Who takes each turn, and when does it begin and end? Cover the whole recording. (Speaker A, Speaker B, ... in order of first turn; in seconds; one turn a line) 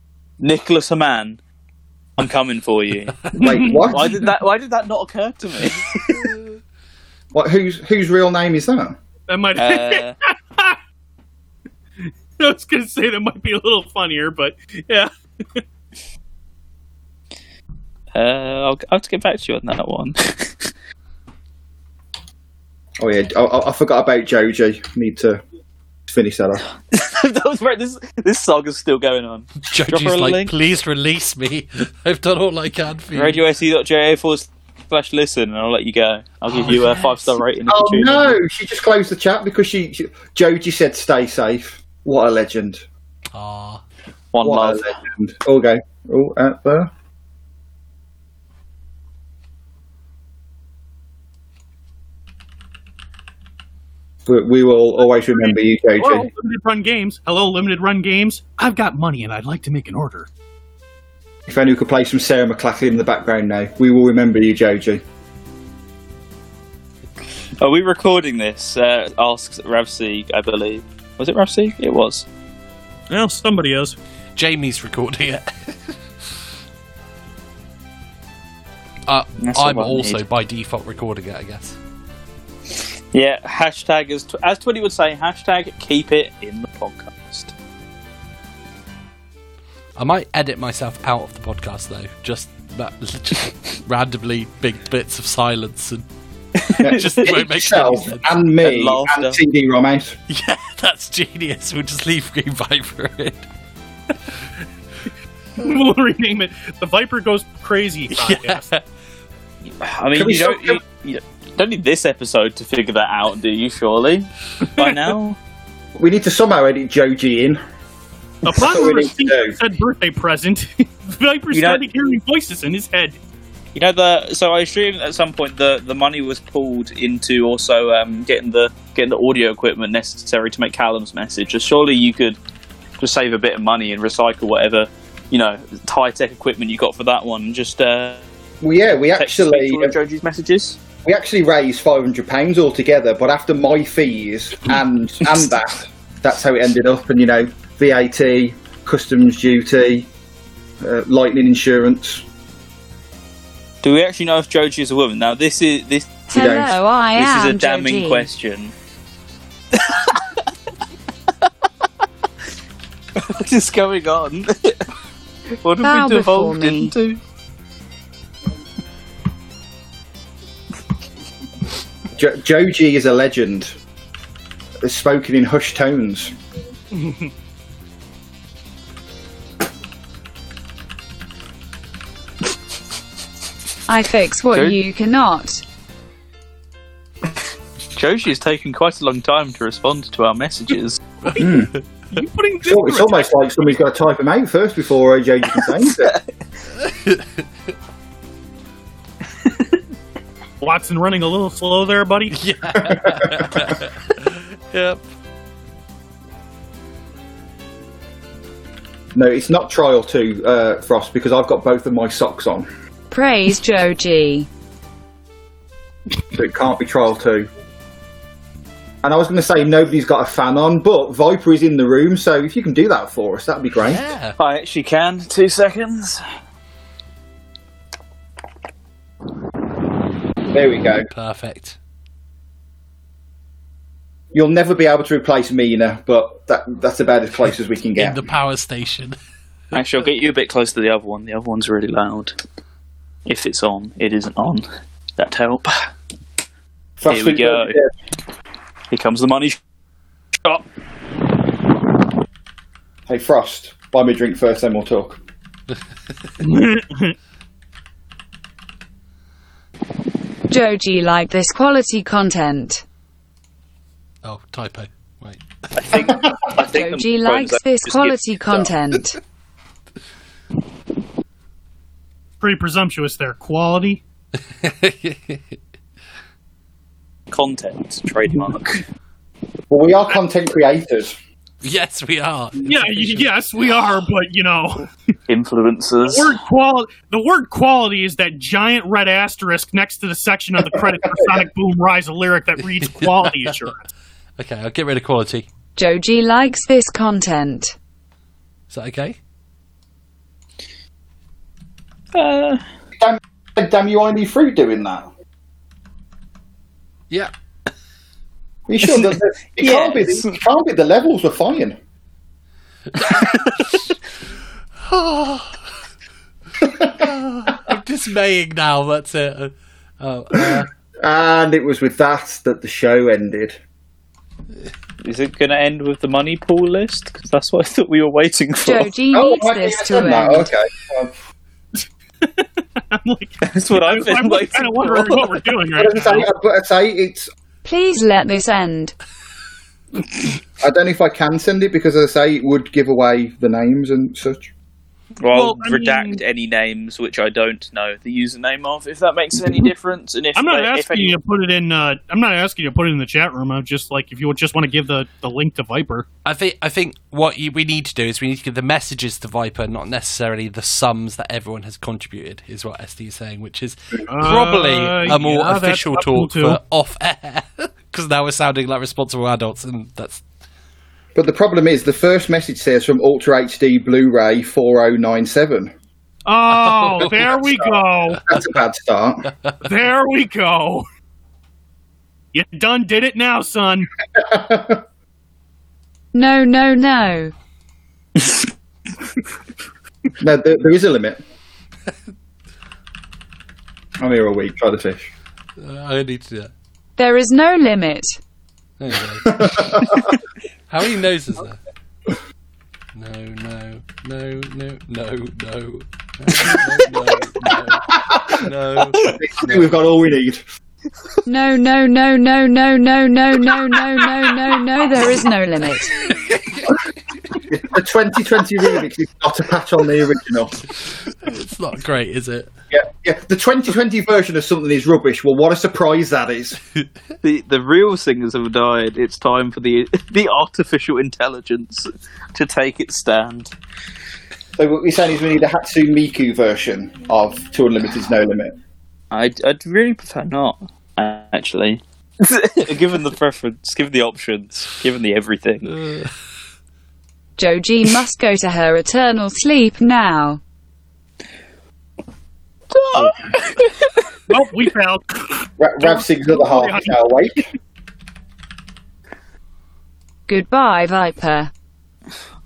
Speaker A: 0.4-1.4
Speaker A: 2.2-6.3
Speaker B: 3.3-4.2
Speaker C: 3.4-4.3
Speaker C: 7.3-9.0
Speaker B: 9.3-10.8
Speaker A: 9.6-10.2
Speaker B: 12.4-15.6
Speaker A: 18.1-20.7
Speaker C: 23.0-25.4
Speaker C: 26.1-26.7
Speaker A: 26.9-30.5
Speaker D: 29.7-33.4
Speaker A: 33.1-38.4
Speaker D: 36.5-37.4
Speaker C: 37.7-42.9
Speaker D: 43.3-43.8
Speaker A: 44.3-45.0
Speaker C: 44.4-46.9
Speaker C: 54.3-56.3
Speaker B: 55.3-60.3
Speaker C: 61.5-65.0
Speaker A: 67.6-72.3
Speaker B: 73.1-74.0
Speaker D: 74.4-75.9
Speaker D: 79.1-81.8
Speaker A: 79.4-80.2
Speaker A: 83.1-87.5
Speaker D: 90.0-96.1
Speaker C: 96.8-100.2
Speaker D: 96.8-98.3
Speaker A: 98.6-99.4
Speaker D: 100.3-103.5
Speaker B: 105.6-108.7
Speaker D: 108.1-108.8
Speaker A: 109.8-115.4
Speaker C: 110.1-110.8
Speaker B: 114.8-115.0
Speaker C: 116.0-117.6
Speaker B: 118.4-123.2
Speaker C: 118.5-119.6
Speaker A: 121.5-121.8
Speaker A: 123.8-132.4
Speaker A: 133.0-138.2
Speaker C: 138.6-139.9
Speaker A: 139.1-140.8
Speaker C: 141.0-150.1
Speaker C: 150.8-152.2
Speaker A: 153.8-156.3
Speaker C: 156.3-156.8
Speaker E: 156.3-158.3
Speaker A: 157.2-158.7
Speaker A: 159.7-160.2
Speaker A: 163.2-164.8
Speaker A: 165.6-167.2
Speaker E: 165.8-166.9
Speaker C: 172.2-173.8
Speaker C: 174.8-176.3
Speaker B: 176.9-177.3
Speaker E: 183.9-185.6
Speaker A: 187.9-191.0
Speaker B: 191.3-193.3
Speaker C: 191.4-191.7
Speaker C: 192.6-196.2
Speaker D: 196.8-197.4
Speaker B: 200.6-202.3
Speaker D: 202.3-205.0
Speaker C: 202.8-203.7
Speaker C: 209.2-212.7
Speaker E: 213.1-214.5
Speaker C: 216.3-217.5
Speaker C: 219.0-224.1
Speaker D: 223.8-224.4
Speaker A: 224.4-226.2
Speaker C: 230.5-231.1
Speaker D: 231.1-231.8
Speaker C: 234.3-238.2
Speaker D: 238.0-239.2
Speaker A: 239.7-242.3
Speaker A: 243.3-244.7
Speaker A: 245.2-245.9
Speaker C: 247.0-247.9
Speaker A: 247.1-247.8
Speaker A: 248.9-249.6
Speaker C: 253.1-255.2
Speaker B: 256.4-257.1
Speaker E: 260.5-262.8
Speaker D: 264.2-266.0
Speaker A: 265.8-268.7
Speaker E: 266.6-269.2
Speaker B: 272.4-274.0
Speaker D: 274.5-275.6
Speaker A: 277.3-278.8
Speaker C: 279.7-281.1
Speaker D: 281.6-283.4
Speaker B: 282.6-284.9
Speaker A: 285.3-286.4
Speaker B: 286.1-293.9
Speaker D: 292.8-293.6
Speaker D: 294.4-295.5
Speaker E: 295.8-297.8
Speaker D: 298.7-299.2
Speaker A: 302.1-302.6
Speaker C: 303.0-305.1
Speaker C: 308.7-311.8
Speaker A: 309.6-310.4
Speaker D: 313.0-313.8
Speaker D: 314.8-315.6
Speaker D: 316.9-320.7
Speaker C: 321.0-323.6
Speaker A: 325.0-328.9
Speaker E: 328.6-330.5
Speaker C: 329.1-331.1
Speaker B: 332.2-336.3
Speaker A: 333.4-335.4
Speaker C: 335.8-337.3
Speaker E: 337.6-338.9
Speaker C: 340.6-344.5
Speaker A: 345.2-351.2
Speaker B: 345.3-346.2
Speaker B: 350.4-356.1
Speaker D: 356.2-370.2
Speaker B: 364.1-366.6
Speaker C: 371.1-375.7
Speaker B: 376.3-378.3
Speaker D: 376.6-377.1
Speaker C: 378.2-379.3
Speaker B: 379.6-380.9
Speaker B: 382.3-383.9
Speaker C: 384.2-384.8
Speaker E: 386.1-387.3
Speaker C: 390.2-391.2
Speaker C: 394.0-395.1
Speaker D: 395.6-396.5
Speaker E: 397.0-398.1
Speaker D: 398.8-399.9
Speaker C: 399.3-400.1
Speaker D: 400.7-401.6
Speaker D: 402.9-409.7
Speaker C: 407.9-410.4
Speaker E: 411.3-415.9
Speaker D: 416.2-416.6
Speaker C: 417.5-420.6
Speaker D: 421.2-422.5
Speaker C: 422.7-426.6
Speaker A: 427.2-433.5
Speaker C: 434.6-438.6
Speaker A: 439.1-445.8
Speaker D: 445.7-446.1
Speaker E: 447.4-450.4
Speaker A: 452.7-453.9
Speaker C: 453.0-453.3
Speaker B: 454.3-456.9
Speaker C: 455.6-457.5
Speaker E: 460.3-461.5